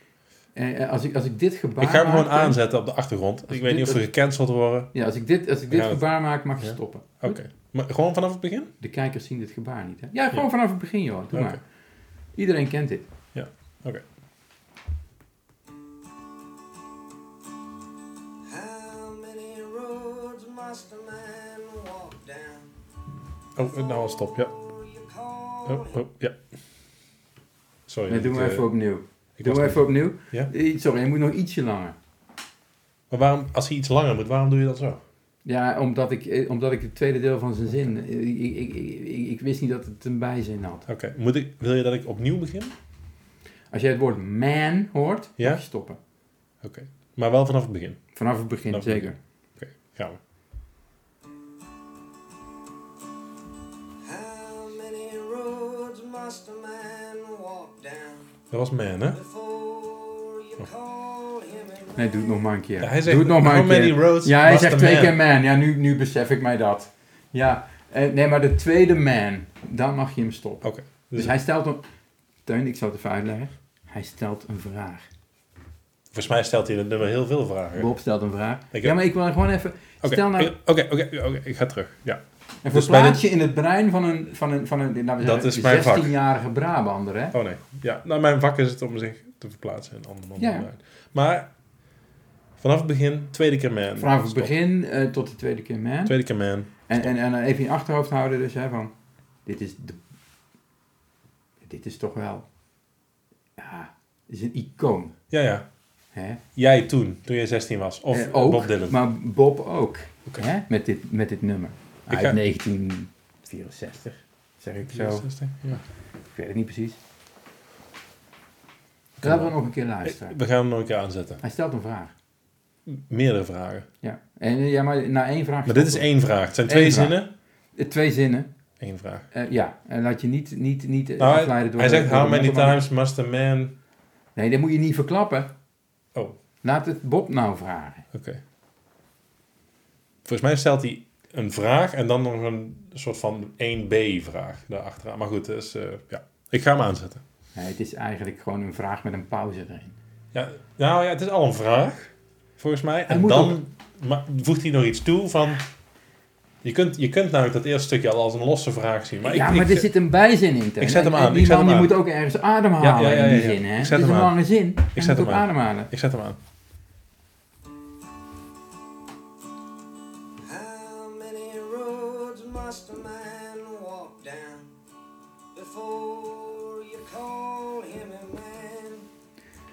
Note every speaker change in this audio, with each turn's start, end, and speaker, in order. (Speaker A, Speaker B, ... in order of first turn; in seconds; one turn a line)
Speaker A: 0.5-2.6
Speaker B: 1.8-4.9
Speaker A: 3.5-4.0
Speaker A: 4.9-7.4
Speaker B: 5.7-6.0
Speaker B: 6.6-8.7
Speaker A: 8.8-11.6
Speaker B: 11.3-11.6
Speaker A: 12.3-13.1
Speaker B: 13.3-14.0
Speaker C: 18.4-22.7
Speaker B: 23.5-24.5
Speaker C: 23.6-26.0
Speaker B: 25.6-26.4
Speaker B: 27.9-28.7
Speaker A: 28.1-31.9
Speaker B: 29.4-30.5
Speaker B: 33.1-35.0
Speaker A: 35.4-40.9
Speaker B: 40.9-42.7
Speaker A: 43.7-46.0
Speaker B: 46.6-50.2
Speaker A: 48.1-49.2
Speaker C: 54.0-58.3
Speaker B: 58.5-59.2
Speaker C: 59.1-62.4
Speaker A: 61.9-71.8
Speaker B: 62.8-65.2
Speaker B: 70.6-71.3
Speaker A: 72.5-75.1
Speaker B: 76.1-77.9
Speaker A: 77.8-80.5
Speaker B: 80.0-83.2
Speaker A: 82.6-87.3
Speaker B: 85.2-86.2
Speaker B: 87.3-91.5
Speaker A: 90.4-90.7
Speaker B: 92.6-94.5
Speaker A: 94.0-96.2
Speaker B: 96.0-96.7
Speaker A: 96.9-98.9
Speaker A: 99.4-100.0
Speaker A: 101.6-102.5
Speaker A: 103.6-105.2
Speaker B: 105.3-105.7
Speaker A: 106.1-106.4
Speaker B: 106.5-109.0
Speaker A: 108.1-115.3
Speaker B: 112.1-112.4
Speaker B: 114.9-115.8
Speaker A: 116.3-117.0
Speaker A: 119.2-120.4
Speaker B: 119.2-121.4
Speaker A: 121.4-122.1
Speaker B: 122.8-123.9
Speaker A: 124.0-126.1
Speaker B: 125.7-127.3
Speaker A: 126.6-127.2
Speaker A: 127.7-128.5
Speaker B: 128.8-129.3
Speaker A: 129.3-132.8
Speaker B: 131.2-133.8
Speaker A: 134.3-135.5
Speaker A: 136.6-138.1
Speaker B: 138.1-138.4
Speaker B: 140.2-147.2
Speaker A: 147.5-149.9
Speaker B: 150.3-155.7
Speaker A: 153.1-153.6
Speaker B: 156.6-159.9
Speaker A: 159.2-165.9
Speaker B: 160.8-161.9
Speaker B: 162.8-164.4
Speaker B: 164.9-166.4
Speaker C: 170.4-174.7
Speaker C: 175.5-179.1